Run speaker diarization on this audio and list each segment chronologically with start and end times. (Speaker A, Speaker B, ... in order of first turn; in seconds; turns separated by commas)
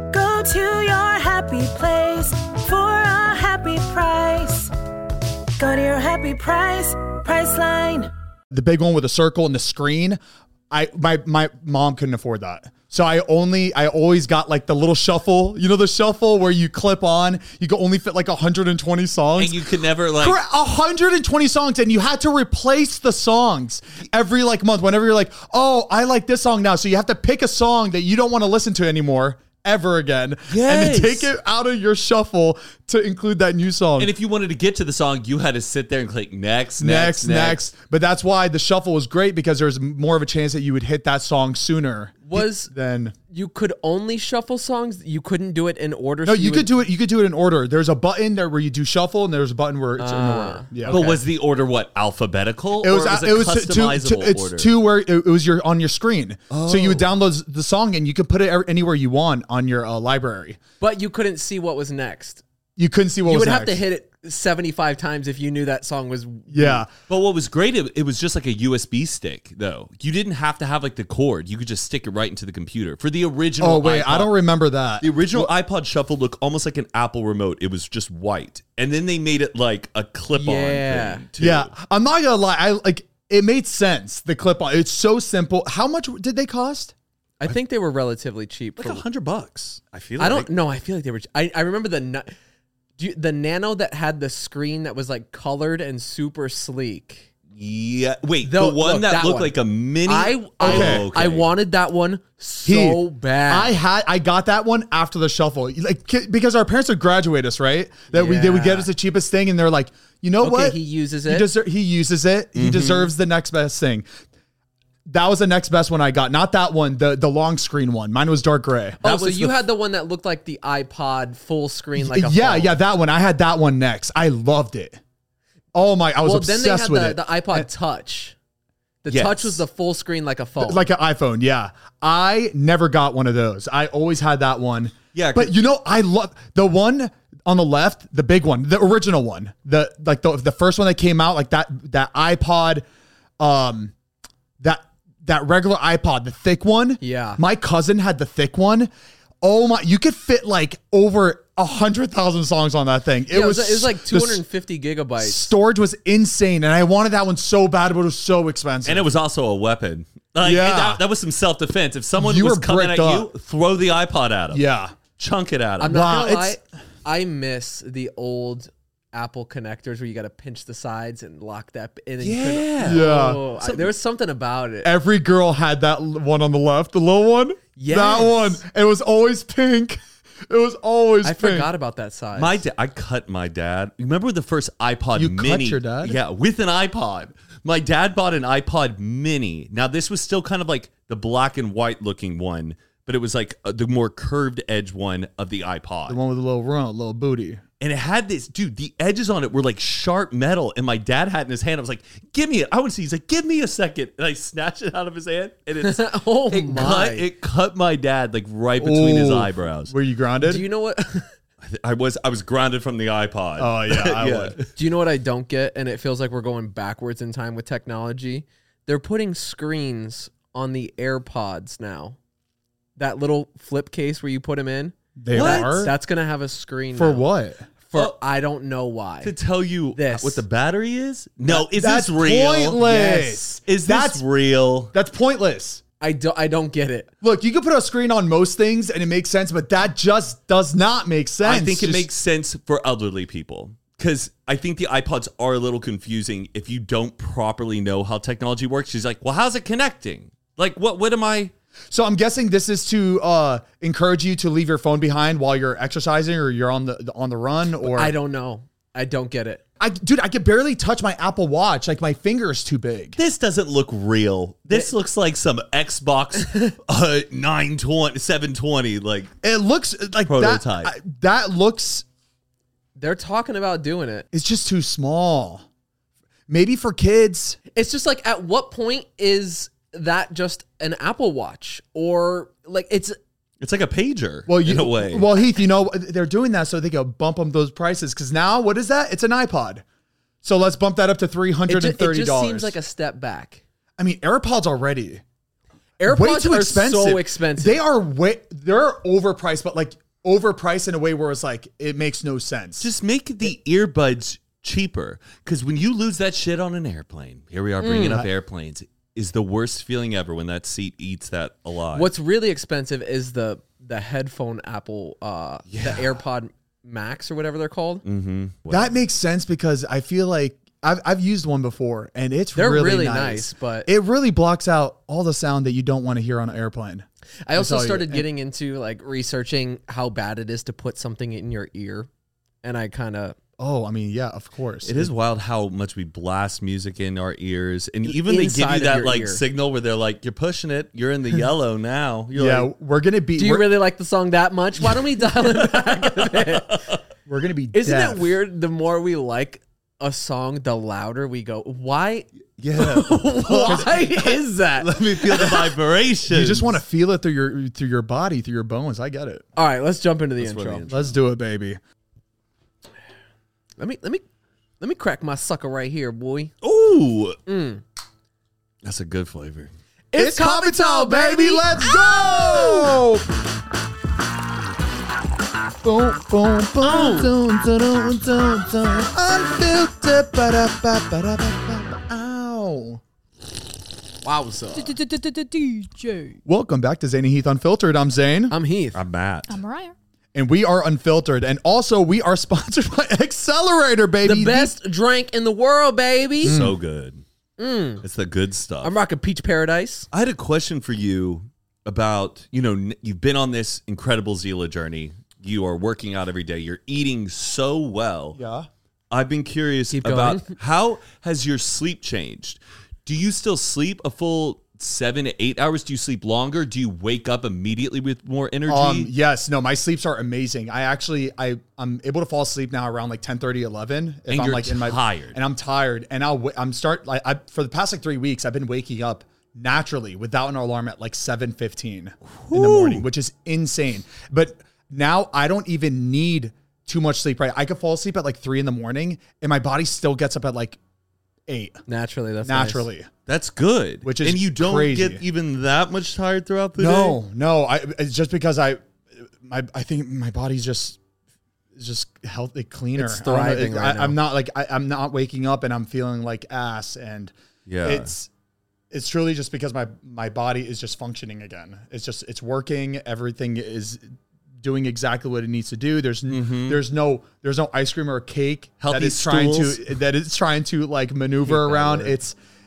Speaker A: 0.1-4.7, Speaker A: 5.6-8.1, Speaker B: 8.5-10.2, Speaker B: 10.7-19.6, Speaker C: 19.4-20.4, Speaker B: 20.2-34.1, Speaker C: 30.5-31.3, Speaker C: 34.0-37.6, Speaker B: 36.8-43.1, Speaker D: 42.2-42.7, Speaker D: 43.3-46.8, Speaker B: 46.2-51.2, Speaker D: 50.0-51.2, Speaker C: 50.9-54.7, Speaker B: 52.8-60.6, Speaker C: 56.5-57.1, Speaker D: 60.8-62.4, Speaker B: 62.8-63.8, Speaker D: 63.2-66.8, Speaker B: 66.5-66.9, Speaker C: 67.1-74.3, Speaker B: 73.6-75.5, Speaker C: 75.0-81.7, Speaker D: 80.3-81.2, Speaker B: 81.4-86.9, Speaker D: 87.4-89.0, Speaker C: 88.8-90.5, Speaker D: 90.2-92.3, Speaker D: 93.0-97.3, Speaker C: 97.5-101.5, Speaker D: 98.5-103.8, Speaker B: 100.6-101.1, Speaker B: 102.7-114.1, Speaker D: 108.1-108.9, Speaker D: 110.4-111.5, Speaker C: 112.5-113.1, Speaker B: 115.1-119.2, Speaker D: 119.0-122.8, Speaker C: 119.0-119.5, Speaker B: 122.0-125.0, Speaker B: 125.7-127.7, Speaker D: 126.2-128.4, Speaker D: 129.0-130.9, Speaker C: 129.1-129.6, Speaker B: 130.6-142.8, Speaker C: 135.2-135.6, Speaker B: 143.4-143.9, Speaker B: 144.6-148.9, Speaker D: 147.0-147.4, Speaker B: 149.4-154.4, Speaker D: 153.3-155.5, Speaker B: 155.2-159.1, Speaker C: 158.9-164.6, Speaker B: 160.4-161.0, Speaker B: 162.2-163.3, Speaker B: 164.5-165.0, Speaker C: 165.2-166.0, Speaker D: 165.8-174.9, Speaker B: 165.8-166.6, Speaker C: 172.2-173.0, Speaker B: 172.8-173.4, Speaker C: 173.6-173.9, Speaker B: 174.8-181.7, Speaker D: 177.8-178.6, Speaker D: 181.2-182.6, Speaker C: 182.4-196.2, Speaker B: 185.2-186.2, Speaker B: 196.1-197.6, Speaker C: 197.8-209.9, Speaker D: 205.8-207.3, Speaker B: 208.8-210.6, Speaker D: 210.4-211.3, Speaker C: 211.6-214.7, Speaker B: 213.6-214.6, Speaker D: 214.8-222.2, Speaker D: 223.0-227.2, Speaker B: 225.2-225.9, Speaker C: 225.3-225.8, Speaker B: 226.9-227.7, Speaker D: 227.9-229.4, Speaker C: 229.2-232.9, Speaker D: 229.9-230.4, Speaker B: 231.5-234.2, Speaker D: 232.8-233.6, Speaker C: 233.7-234.9, Speaker B: 234.9-235.8, Speaker D: 236.0-237.1, Speaker B: 237.2-242.1, Speaker C: 241.4-251.5, Speaker B: 251.9-258.1, Speaker D: 257.8-259.6, Speaker B: 259.8-263.2, Speaker C: 263.2-269.3, Speaker D: 266.4-266.7, Speaker B: 269.4-272.1, Speaker C: 270.3-270.9, Speaker D: 273.0-274.3, Speaker B: 274.3-275.6, Speaker B: 276.5-277.6, Speaker D: 277.8-283.2, Speaker C: 283.6-285.3, Speaker B: 284.5-289.8, Speaker B: 290.4-292.8, Speaker D: 291.7-293.6, Speaker B: 294.0-295.2, Speaker D: 296.0-297.8, Speaker B: 296.0-302.9, Speaker C: 302.8-312.1, Speaker D: 307.8-308.3, Speaker B: 308.0-308.2, Speaker D: 311.9-318.0, Speaker C: 315.7-316.1, Speaker C: 318.1-318.9, Speaker B: 318.7-328.3, Speaker D: 322.6-323.9, Speaker D: 327.5-332.1, Speaker D: 332.6-333.4, Speaker B: 333.6-335.1, Speaker C: 334.8-342.7, Speaker D: 338.0-339.4, Speaker B: 342.4-343.8, Speaker D: 343.4-346.8, Speaker C: 346.7-347.0, Speaker B: 347.3-348.3, Speaker D: 347.7-355.6, Speaker C: 352.6-356.8, Speaker B: 353.7-354.0, Speaker B: 356.3-359.4, Speaker D: 359.6-360.9, Speaker C: 360.4-361.2, Speaker B: 360.9-361.8, Speaker D: 363.8-364.2, Speaker D: 364.8-366.5, Speaker C: 366.6-367.4, Speaker D: 367.5-367.8, Speaker C: 368.8-369.7, Speaker D: 370.1-371.6, Speaker B: 370.2-373.3, Speaker E: 371.9-372.8, Speaker B: 375.8-383.0, Speaker D: 376.9-377.3, Speaker D: 384.2-384.9, Speaker E: 384.8-386.4, Speaker B: 386.5-388.5, Speaker D: 388.5-389.0, Speaker C: 388.9-389.6, Speaker E: 389.5-389.9, Speaker B: 390.3-394.7, Speaker D: 394.2-396.6, Speaker B: 396.4-396.8, Speaker C: 396.4-397.2, Speaker D: 397.6-398.0, Speaker C: 398.0-398.9, Speaker D: 398.8-400.1, Speaker C: 400.1-408.4, Speaker B: 408.4-408.7, Speaker C: 409.1-419.1, Speaker D: 409.9-410.5, Speaker B: 418.7-440.8, Speaker C: 424.3-425.4, Speaker C: 432.4-433.1, Speaker B: 441.5-441.8, Speaker D: 441.9-442.9, Speaker B: 442.4-443.1, Speaker C: 443.3-447.2, Speaker B: 444.0-445.2, Speaker B: 446.8-448.8, Speaker B: 449.4-451.0, Speaker B: 451.8-457.3, Speaker D: 453.0-454.2, Speaker C: 457.7-458.1, Speaker B: 457.8-458.3, Speaker B: 458.9-472.4, Speaker C: 466.3-466.8, Speaker C: 468.8-469.9, Speaker D: 471.5-472.2